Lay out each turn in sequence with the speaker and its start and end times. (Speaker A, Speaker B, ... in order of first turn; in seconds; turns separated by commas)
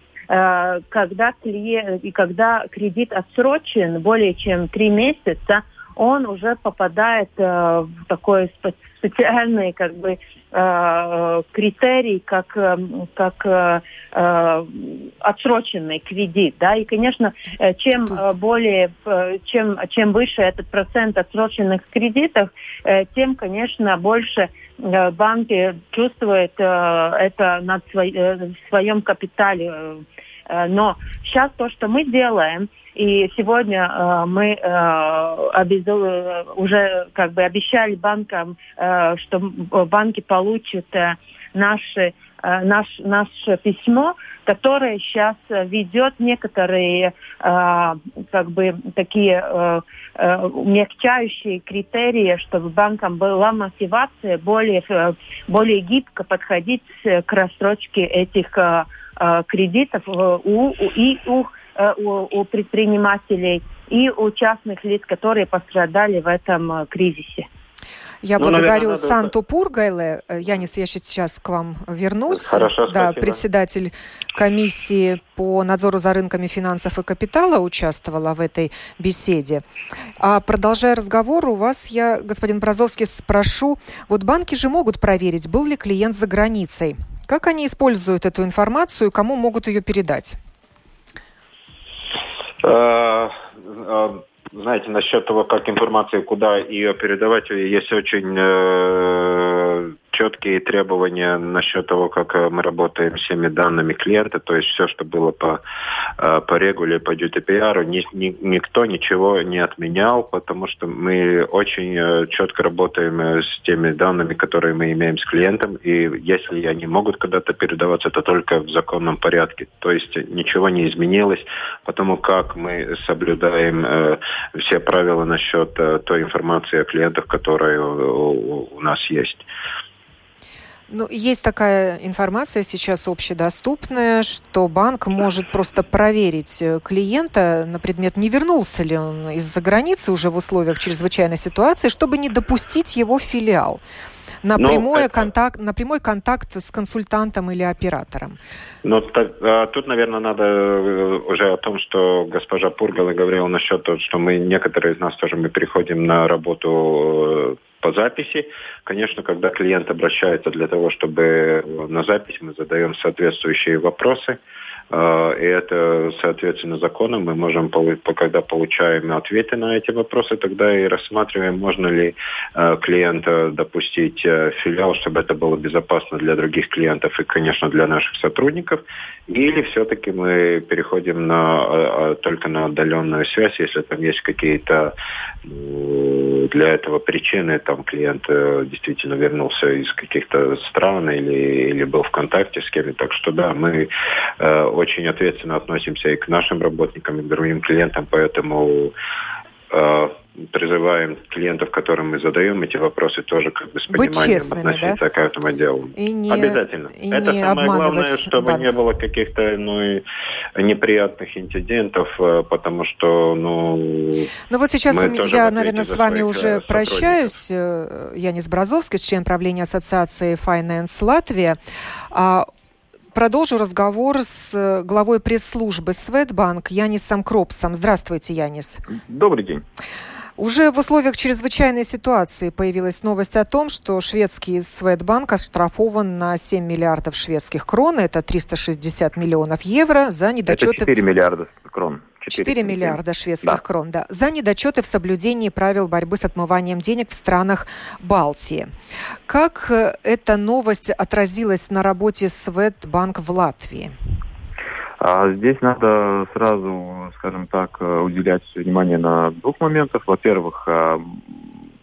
Speaker A: 0.3-67.5, Speaker B: 68.2-79.7, Speaker C: 68.4-69.3, Speaker C: 72.3-73.4, Speaker B: 80.2-90.4, Speaker C: 92.6-105.6, Speaker C: 106.2-129.5, Speaker B: 130.9-143.8, Speaker B: 144.4-148.4, Speaker C: 144.6-145.3, Speaker C: 148.8-164.4, Speaker C: 164.9-184.9, Speaker C: 185.4-198.9, Speaker C: 199.7-210.0, Speaker B: 203.9-205.0, Speaker B: 206.0-208.7, Speaker C: 210.6-214.3, Speaker B: 214.5-221.6, Speaker C: 214.9-217.3, Speaker B: 222.1-222.5, Speaker B: 223.1-228.8, Speaker D: 228.9-229.6, Speaker B: 230.4-240.9, Speaker D: 240.5-243.6, Speaker B: 242.3-248.7, Speaker B: 249.3-253.9, Speaker D: 255.0-261.5